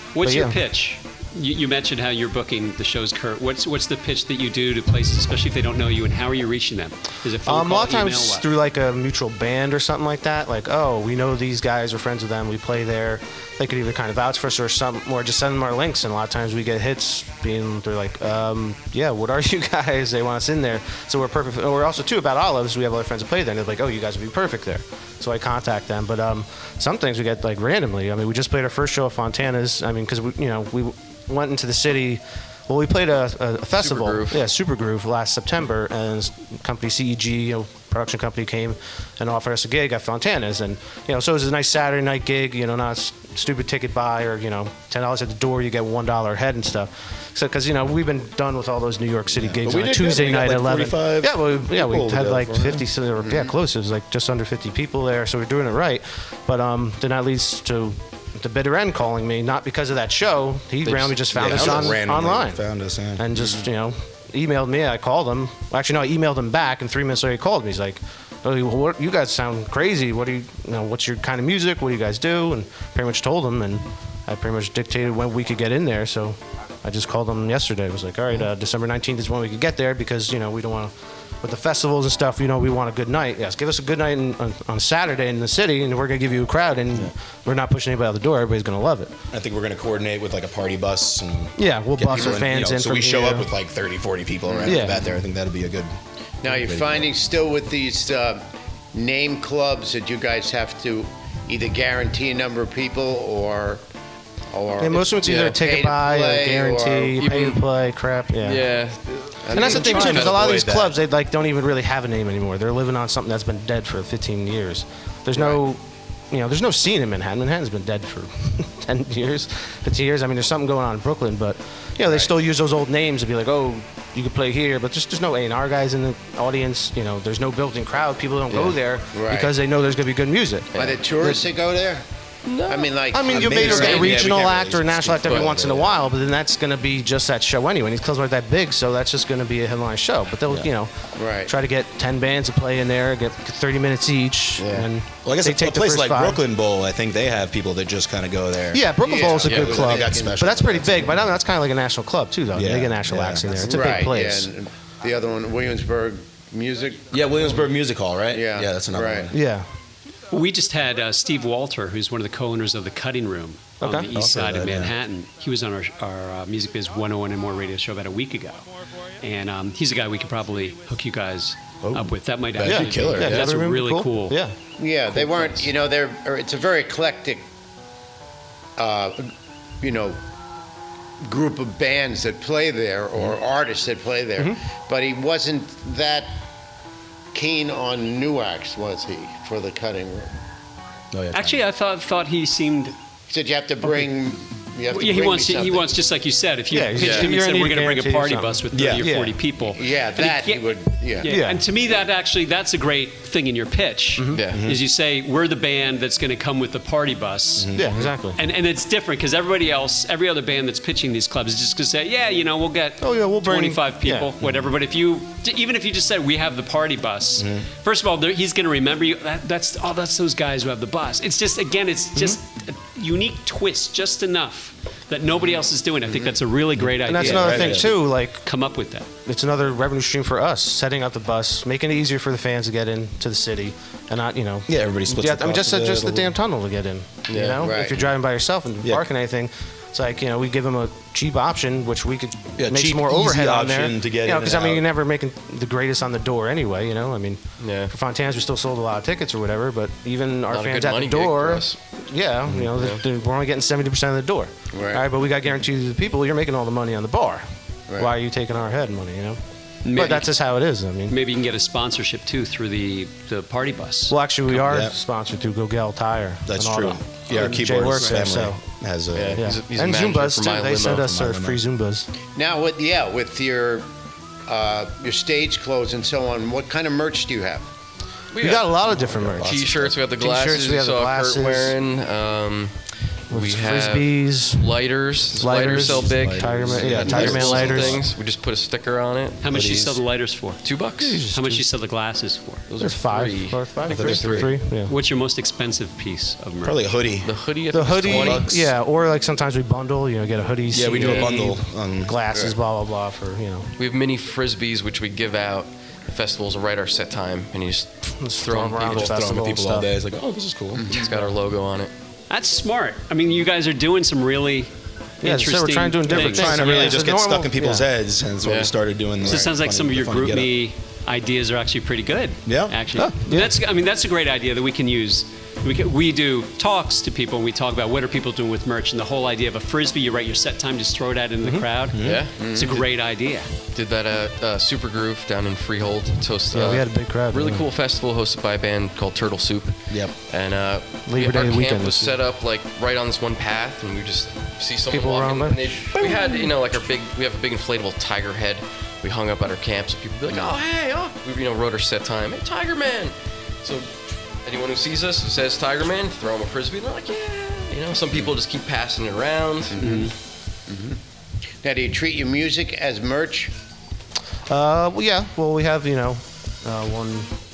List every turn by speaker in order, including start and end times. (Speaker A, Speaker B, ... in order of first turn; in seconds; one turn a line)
Speaker A: 0.1-8.5
Speaker B: 0.2-0.6
Speaker B: 7.4-62.6
Speaker C: 33.8-34.4
Speaker D: 49.3-52.9
Speaker E: 53.2-53.5
Speaker C: 60.8-62.0
Speaker D: 61.3-63.2
Speaker B: 63.2-89.1
Speaker E: 63.3-63.6
Speaker D: 89.3-97.1
Speaker B: 91.6-93.5
Speaker E: 94.5-95.0
Speaker B: 94.7-95.0
Speaker E: 96.4-103.8
Speaker E: 104.5-107.2
Speaker B: 104.8-108.7
Speaker C: 107.2-107.6
Speaker C: 108.4-110.4
Speaker E: 109.5-110.2
Speaker D: 109.5-110.9
Speaker B: 109.5-115.8
Speaker E: 115.3-115.6
Speaker B: 116.3-131.5
Speaker E: 129.1-129.5
Speaker E: 130.8-132.0
Speaker C: 132.4-134.3
Speaker E: 132.7-134.1
Speaker B: 133.1-146.4
Speaker D: 133.3-136.0
Speaker C: 135.2-135.5
Speaker E: 141.2-141.5
Speaker E: 144.6-144.9
Speaker D: 145.2-151.3
Speaker B: 148.7-154.5
Speaker E: 149.0-150.5
Speaker C: 149.4-149.8
Speaker D: 152.5-153.9
Speaker E: 153.6-157.6
Speaker D: 157.1-159.4
Speaker E: 158.3-159.3
Speaker B: 159.3-159.7
Speaker A: 160.3-168.6
Speaker B: 163.8-164.1
Speaker D: 164.1-164.9
Speaker A: 169.2-174.4
Speaker D: 171.8-173.4
Speaker B: 172.6-174.6
Speaker E: 174.8-177.4
Speaker E: 178.8-179.3
Speaker E: 179.8-180.2
Speaker E: 181.2-186.4
Speaker E: 187.3-190.3
Speaker D: 191.1-191.6
Speaker A: 191.3-192.9
Speaker E: 193.3-195.9
Speaker A: 194.9-207.8
Speaker B: 196.7-199.4
Speaker C: 197.0-197.3
Speaker D: 198.7-199.0
Speaker E: 199.6-201.3
Speaker B: 201.2-201.6
Speaker B: 204.2-204.4
Speaker C: 204.3-204.6
Speaker D: 204.5-204.8
Speaker D: 207.6-208.1
Speaker B: 207.7-208.4
Speaker A: 208.3-229.1
Speaker B: 213.0-214.3
Speaker D: 217.4-217.7
Speaker D: 226.8-227.9
Speaker B: 227.0-228.4
Speaker B: 229.2-257.4
Speaker D: 234.7-236.3
Speaker C: 237.3-237.7
Speaker E: 237.6-238.0
Speaker D: 242.6-244.8
Speaker C: 247.6-247.9
Speaker C: 250.5-251.8
Speaker D: 252.4-252.7
Speaker C: 252.8-253.0
Speaker E: 254.7-255.0
Speaker E: 257.9-258.2
Speaker B: 257.9-261.2
Speaker D: 259.8-260.2
Speaker A: 261.1-264.2
Speaker B: 264.1-268.6
Speaker D: 264.6-264.9
Speaker D: 266.5-269.5
Speaker C: 269.1-271.1
Speaker B: 269.4-272.1
Speaker D: 270.9-271.6
Speaker E: 272.3-273.9
Speaker E: 274.4-277.7
Speaker C: 278.3-282.8
Speaker B: 278.4-279.5
Speaker D: 278.9-280.0
Speaker B: 280.1-281.8
Speaker C: 283.3-289.4
Speaker B: 283.3-284.7
Speaker B: 285.3-288.0
Speaker D: 285.6-288.0
Speaker A: 289.4-290.7
Speaker D: 289.5-290.0
Speaker C: 290.6-291.2
Speaker B: 291.0-291.7
Speaker A: 291.3-292.6
Speaker C: 292.7-294.5
Speaker B: 292.8-294.9
Speaker D: 293.9-294.5
Speaker A: 294.8-296.8
Speaker D: 296.6-297.3
Speaker C: 297.2-298.6
Speaker B: 297.7-303.7
Speaker D: 298.0-298.7
Speaker D: 300.7-302.2
Speaker C: 301.0-301.3
Speaker C: 303.8-309.4
Speaker B: 308.1-309.9
Speaker D: 308.8-310.9
Speaker E: 310.7-311.2
Speaker C: 310.9-311.9
Speaker A: 312.3-314.7
Speaker A: 315.2-317.0
Speaker B: 315.2-317.9
Speaker D: 316.1-320.6
Speaker C: 318.4-318.7
Speaker A: 319.2-333.5
Speaker D: 322.4-323.1
Speaker B: 323.0-323.5
Speaker B: 331.4-331.7
Speaker D: 331.9-332.3
Speaker C: 332.0-332.3
Speaker E: 332.4-332.8
Speaker C: 333.7-353.9
Speaker B: 336.5-337.6
Speaker B: 341.1-342.1
Speaker B: 344.9-346.0
Speaker E: 350.3-350.6
Speaker C: 354.4-360.0
Speaker E: 359.7-360.1
Speaker A: 359.8-360.1
Speaker E: 360.7-361.0
Speaker E: 361.6-363.5
Speaker B: 364.5-367.3